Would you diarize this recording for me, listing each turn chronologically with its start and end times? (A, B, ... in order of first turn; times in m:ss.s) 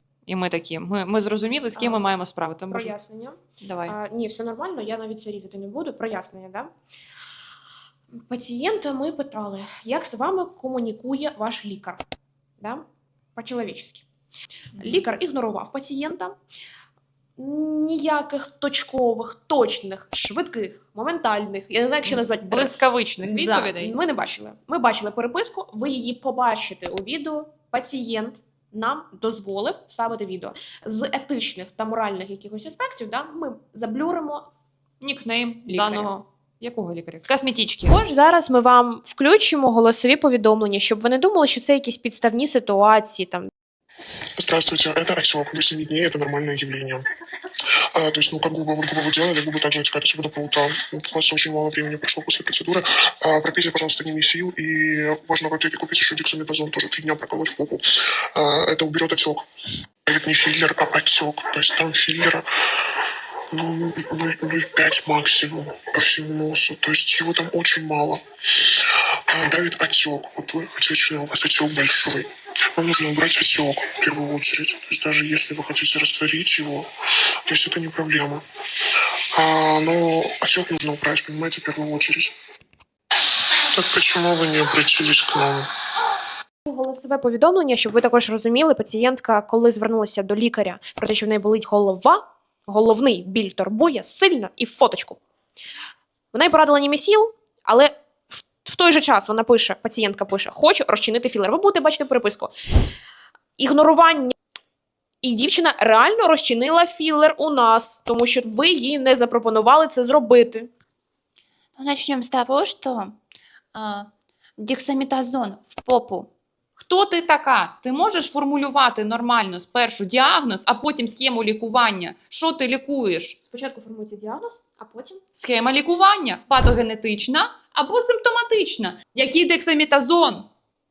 0:00.3-0:03.0 A
0:01.8-0:02.1 B
0:02.7-0:06.7 B
0:03.6-0:04.0 A
0:08.2-0:12.0 B
0:13.4-0:14.0 B
0:14.8-0:16.3 B
0:17.4-0:34.4 B
0:22.0-0:24.0 A
0:35.0-0:38.0 A
0:35.7-0:36.1 B
0:37.9-0:43.5 B
0:44.4-0:47.1 C
0:47.9-0:59.4 C
1:00.0-1:02.5 C
1:03.5-1:16.9 C
1:17.5-1:18.4 C
1:19.3-1:22.3 C
1:23.7-1:25.7 C
1:26.6-1:35.2 B
1:36.3-1:42.5 B
1:43.6-1:44.4 B
1:45.2-1:50.7 B
1:51.8-1:53.1 D
1:53.7-1:56.3 D
1:56.8-2:03.4 A
2:03.5-2:05.2 B
2:05.3-2:10.5 A